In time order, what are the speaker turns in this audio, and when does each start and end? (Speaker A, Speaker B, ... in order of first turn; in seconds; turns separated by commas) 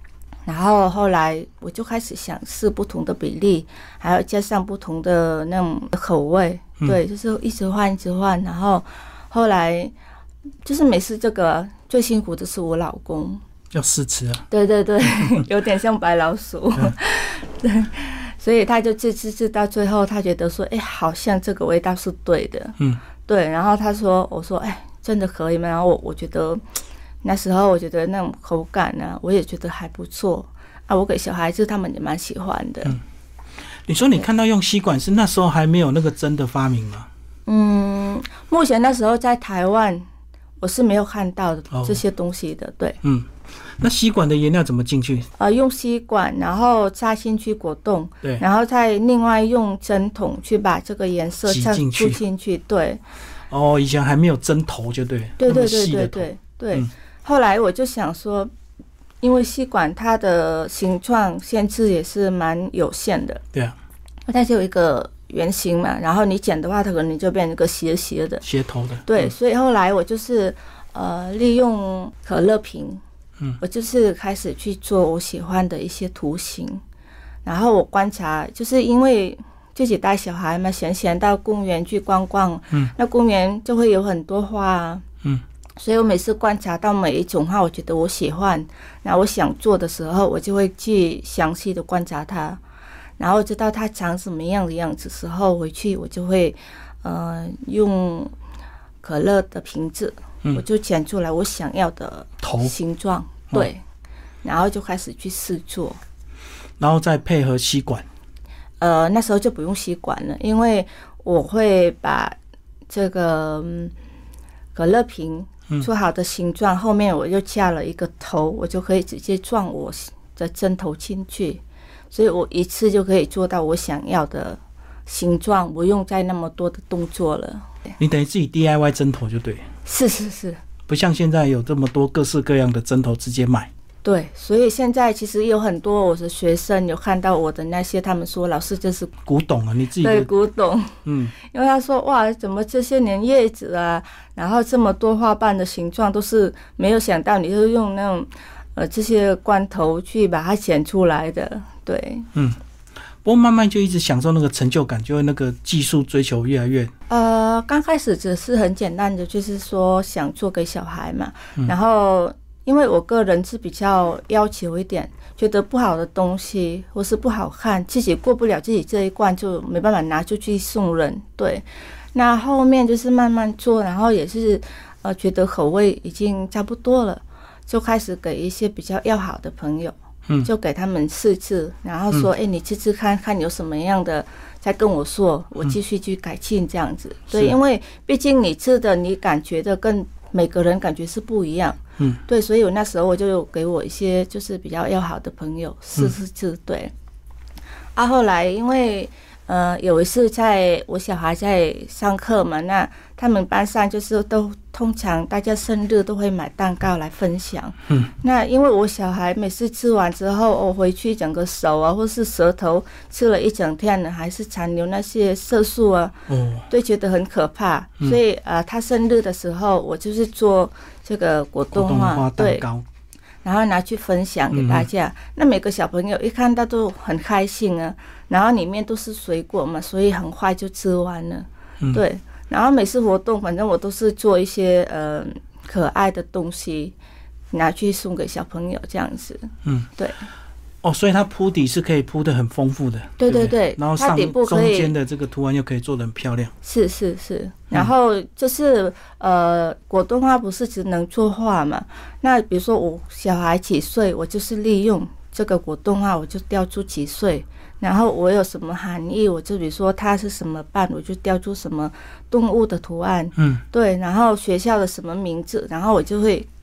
Speaker A: 0.5-9.9, Speaker A: 10.7-13.4, Speaker B: 13.7-14.5, Speaker A: 14.5-26.6, Speaker A: 27.2-33.0, Speaker B: 33.9-37.1, Speaker A: 37.5-40.0, Speaker A: 40.6-43.0, Speaker B: 41.7-42.0, Speaker B: 43.0-45.3, Speaker A: 45.4-53.0, Speaker B: 51.5-52.2, Speaker B: 53.5-56.9, Speaker A: 55.4-58.5, Speaker A: 59.2-63.4, Speaker A: 64.3-68.4, Speaker B: 68.4-69.3, Speaker A: 69.0-73.0, Speaker A: 73.6-76.8, Speaker A: 77.5-85.0, Speaker A: 85.8-92.6, Speaker A: 93.2-98.3, Speaker A: 99.0-103.8, Speaker B: 102.4-102.7, Speaker A: 104.4-106.0, Speaker B: 106.8-108.1, Speaker A: 108.8-112.3, Speaker A: 112.9-113.9, Speaker A: 114.8-127.8, Speaker B: 128.0-129.7, Speaker A: 129.9-130.6, Speaker B: 130.9-133.7, Speaker A: 134.0-139.1, Speaker B: 139.2-140.3, Speaker A: 140.0-152.3, Speaker B: 141.1-141.3, Speaker B: 152.3-152.6, Speaker B: 153.2-156.9, Speaker A: 157.1-196.9, Speaker A: 198.0-222.7, Speaker B: 216.3-216.7, Speaker B: 221.7-222.8, Speaker A: 223.4-236.9, Speaker B: 224.5-224.9, Speaker A: 237.5-240.2, Speaker B: 240.8-246.5, Speaker A: 243.2-244.9, Speaker A: 246.6-266.5, Speaker B: 263.4-263.6